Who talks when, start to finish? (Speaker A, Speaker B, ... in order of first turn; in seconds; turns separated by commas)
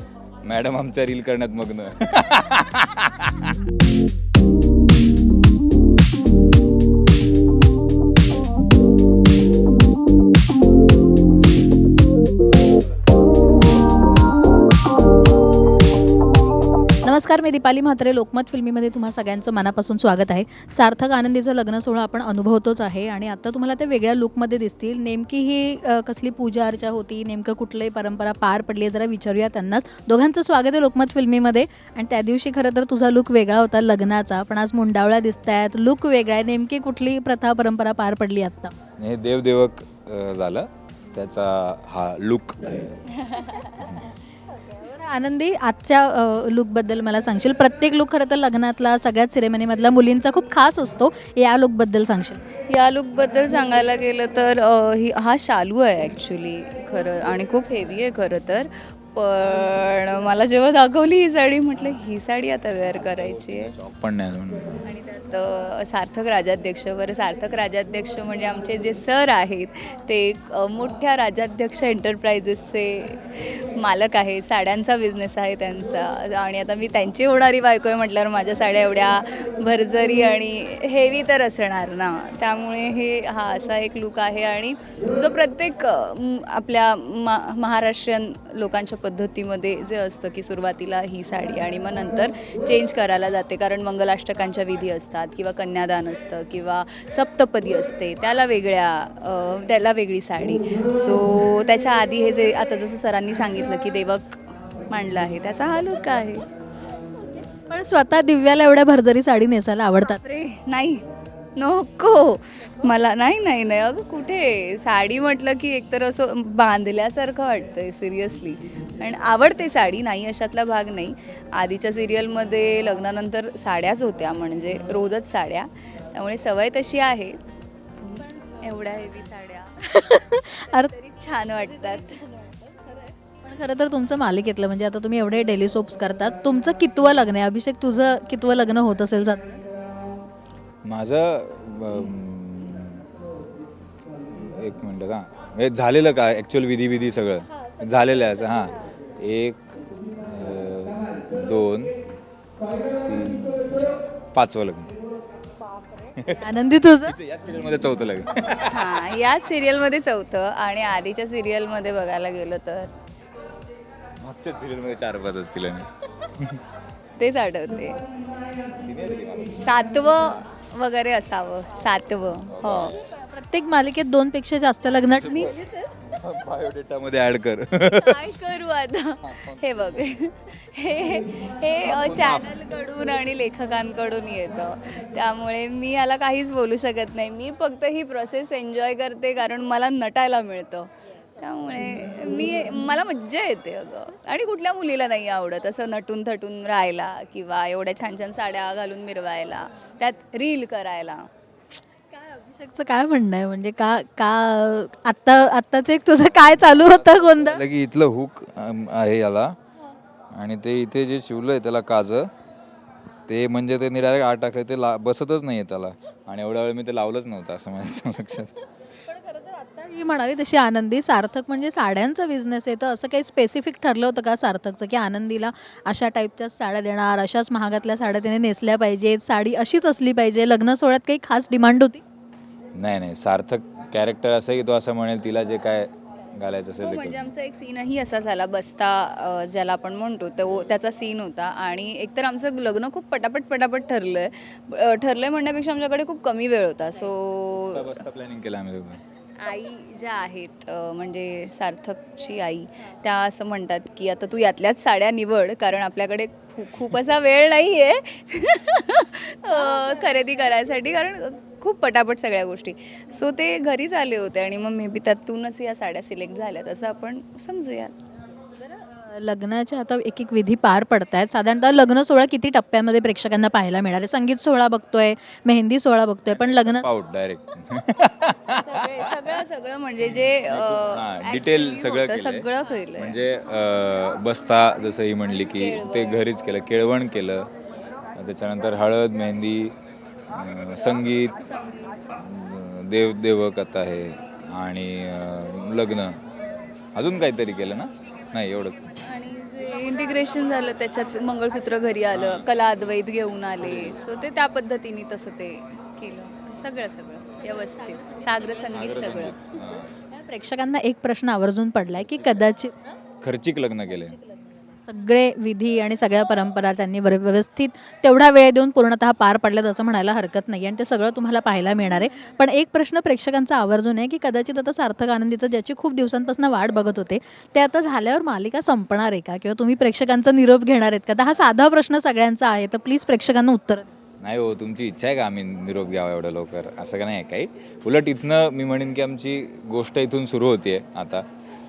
Speaker A: 0.4-3.5, Speaker B: 17.0-38.7, Speaker A: 39.0-43.1, Speaker C: 43.1-43.9, Speaker A: 43.8-44.1, Speaker B: 44.6-52.4, Speaker C: 52.7-63.7, Speaker A: 63.1-64.8, Speaker C: 64.8-106.5, Speaker B: 107.7-110.2, Speaker C: 110.0-127.3, Speaker C: 128.0-132.2, Speaker B: 129.9-130.9, Speaker B: 132.4-139.5, Speaker A: 140.8-143.1, Speaker A: 144.3-151.9, Speaker A: 153.0-154.9, Speaker A: 156.1-156.5, Speaker B: 156.3-157.1, Speaker A: 157.0-159.1, Speaker C: 158.7-162.9, Speaker A: 164.2-166.6, Speaker C: 167.2-168.0, Speaker A: 168.8-169.6, Speaker C: 169.6-173.0, Speaker A: 172.5-173.0, Speaker B: 173.0-175.4, Speaker A: 175.2-178.4, Speaker C: 175.3-175.9, Speaker C: 177.9-201.3, Speaker A: 179.2-180.2, Speaker A: 181.8-182.6, Speaker B: 202.1-207.6, Speaker A: 206.2-209.6, Speaker A: 210.3-212.3, Speaker A: 213.3-218.6, Speaker B: 219.1-232.0, Speaker A: 232.8-237.3, Speaker C: 236.8-248.0, Speaker A: 247.7-249.0, Speaker C: 249.4-267.9, Speaker B: 259.7-260.0, Speaker B: 268.6-276.9, Speaker A: 276.4-279.1, Speaker C: 278.5-283.2, Speaker A: 280.2-287.5, Speaker C: 285.4-286.2, Speaker A: 288.1-289.7, Speaker A: 290.3-291.4, Speaker C: 291.3-292.0, Speaker A: 292.1-296.2, Speaker A: 296.9-298.9, Speaker C: 299.0-309.4, Speaker A: 302.1-302.5, Speaker A: 303.6-304.0, Speaker A: 308.6-309.9, Speaker B: 309.9-312.9, Speaker A: 312.0-312.5, Speaker A: 313.2-314.2, Speaker B: 314.1-333.9, Speaker A: 334.2-341.2